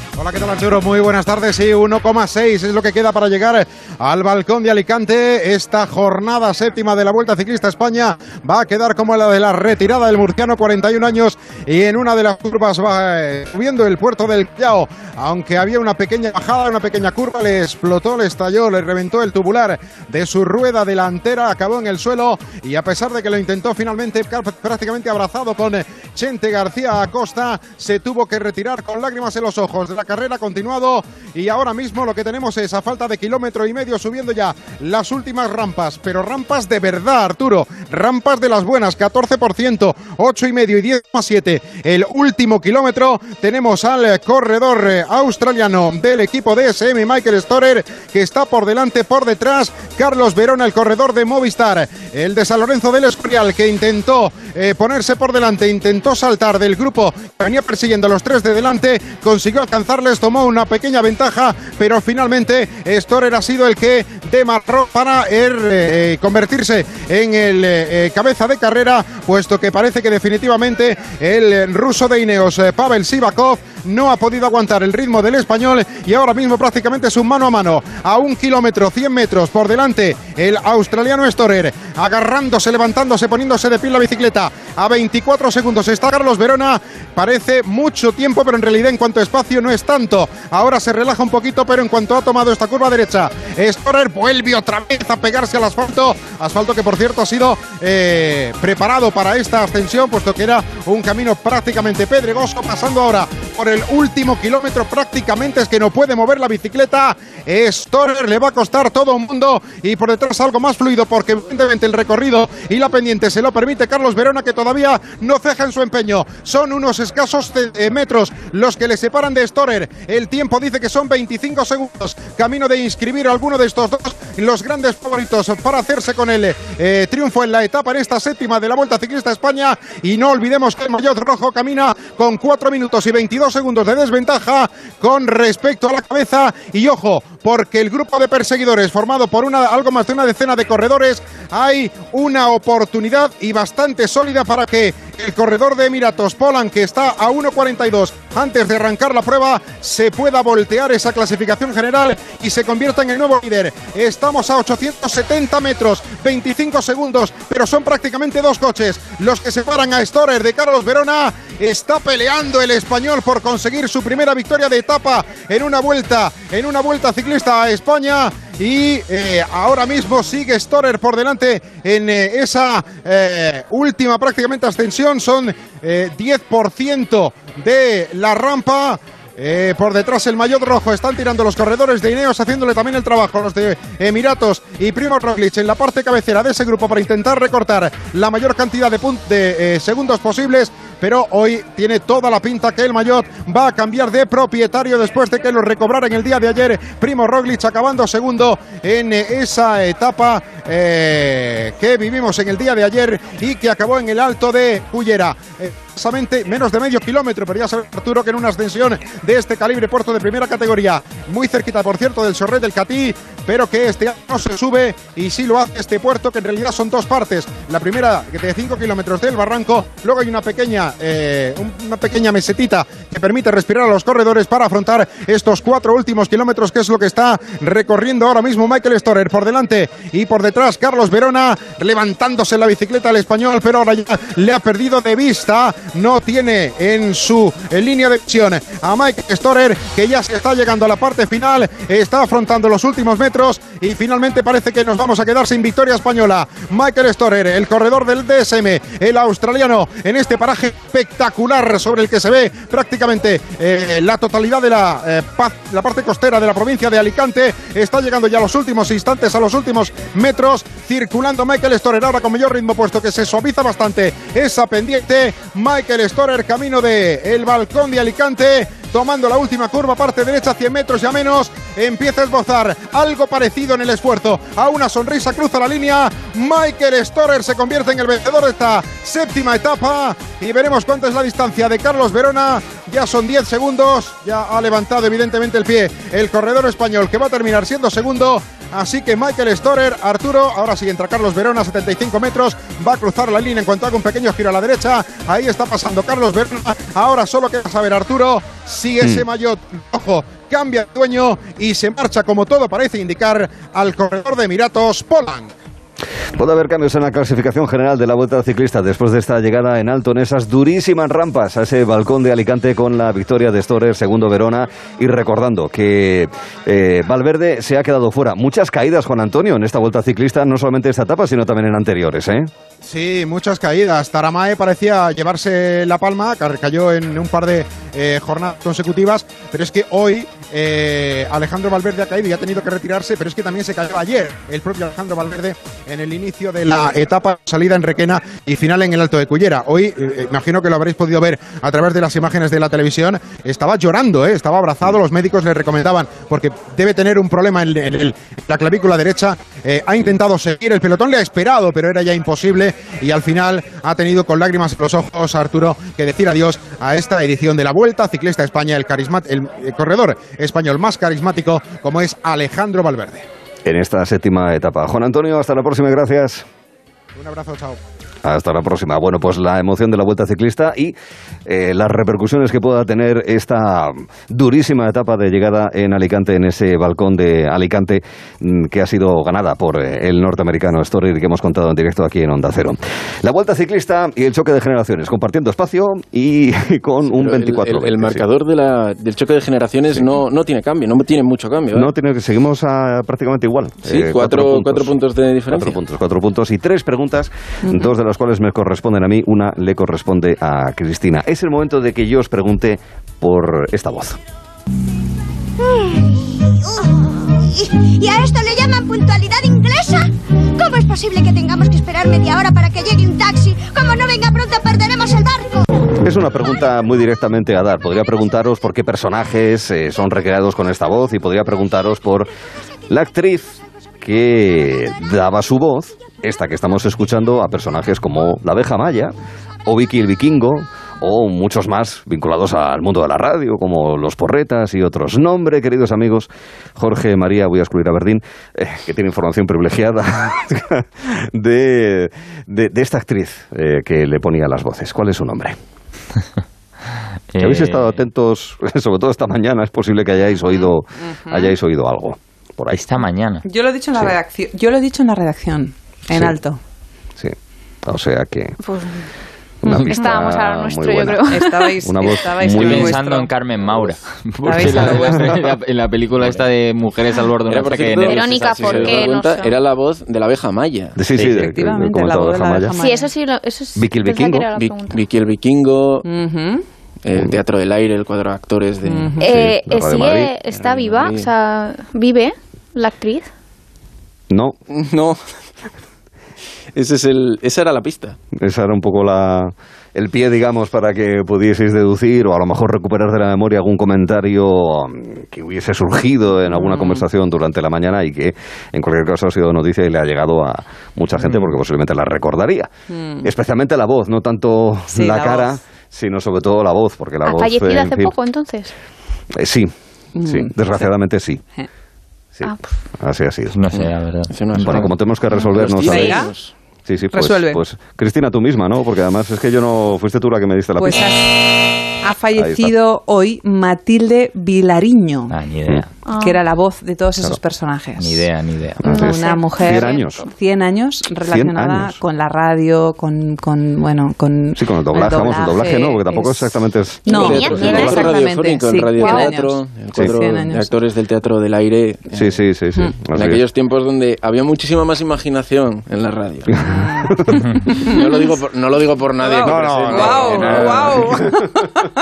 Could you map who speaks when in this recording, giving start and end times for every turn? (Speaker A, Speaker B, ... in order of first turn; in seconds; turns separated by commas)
Speaker A: 0.2-305.5, Speaker B: 306.4-322.5, Speaker A: 322.8-363.3, Speaker B: 363.6-366.5, Speaker A: 367.1-367.8, Speaker B: 368.2-370.9, Speaker B: 371.5-388.2, Speaker C: 387.1-391.9, Speaker B: 391.7-394.9, Speaker C: 393.9-395.8, Speaker B: 395.5-404.2, Speaker D: 408.4-409.5, Speaker D: 410.6-415.4, Speaker B: 416.0-422.3, Speaker B: 422.9-429.1, Speaker B: 429.7-445.6, Speaker E: 447.3-448.0, Speaker B: 447.4-453.0, Speaker F: 451.0-451.5, Speaker E: 452.7-453.4, Speaker F: 453.4-456.6, Speaker B: 456.1-456.4, Speaker B: 457.2-458.6, Speaker G: 458.6-459.1, Speaker B: 459.6-463.0, Speaker G: 459.8-461.8, Speaker F: 461.3-463.3, Speaker E: 462.4-469.1, Speaker F: 464.4-465.4, Speaker B: 464.8-465.4, Speaker C: 467.5-471.0, Speaker G: 468.0-469.5, Speaker B: 471.0-472.8, Speaker E: 471.2-471.5, Speaker F: 471.3-473.1, Speaker G: 472.8-475.0, Speaker B: 473.8-474.5, Speaker C: 474.6-476.1, Speaker F: 476.1-476.6, Speaker C: 477.0-479.2, Speaker F: 478.8-479.2, Speaker B: 479.2-480.3, Speaker G: 479.2-483.3, Speaker C: 480.5-481.3, Speaker B: 484.3-484.6, Speaker C: 484.7-485.2, Speaker C: 486.8-488.2, Speaker B: 488.3-502.7, Speaker E: 501.2-501.5, Speaker F: 502.9-503.3, Speaker B: 503.2-508.1, Speaker F: 504.9-505.6, Speaker G: 507.2-508.7, Speaker B: 509.3-509.7, Speaker F: 510.2-510.7, Speaker B: 510.2-511.4, Speaker B: 512.4-513.5, Speaker E: 513.5-514.9, Speaker C: 513.8-516.5, Speaker B: 514.6-516.3, Speaker F: 515.6-516.3, Speaker B: 516.9-521.1, Speaker F: 517.1-517.6, Speaker F: 520.8-521.4, Speaker F: 522.0-525.3, Speaker B: 522.4-522.8, Speaker E: 525.3-525.9, Speaker G: 526.1-526.4, Speaker F: 526.2-528.3, Speaker E: 528.0-528.9, Speaker B: 528.8-530.3, Speaker G: 528.9-530.3, Speaker F: 528.9-540.7, Speaker B: 531.3-532.0, Speaker B: 534.6-537.9, Speaker C: 537.1-542.3, Speaker G: 537.1-538.1, Speaker G: 539.0-539.3, Speaker B: 542.1-543.4, Speaker C: 543.1-546.7, Speaker F: 546.6-548.4, Speaker B: 546.6-547.4, Speaker C: 547.9-551.2, Speaker F: 549.2-551.6, Speaker B: 549.4-551.7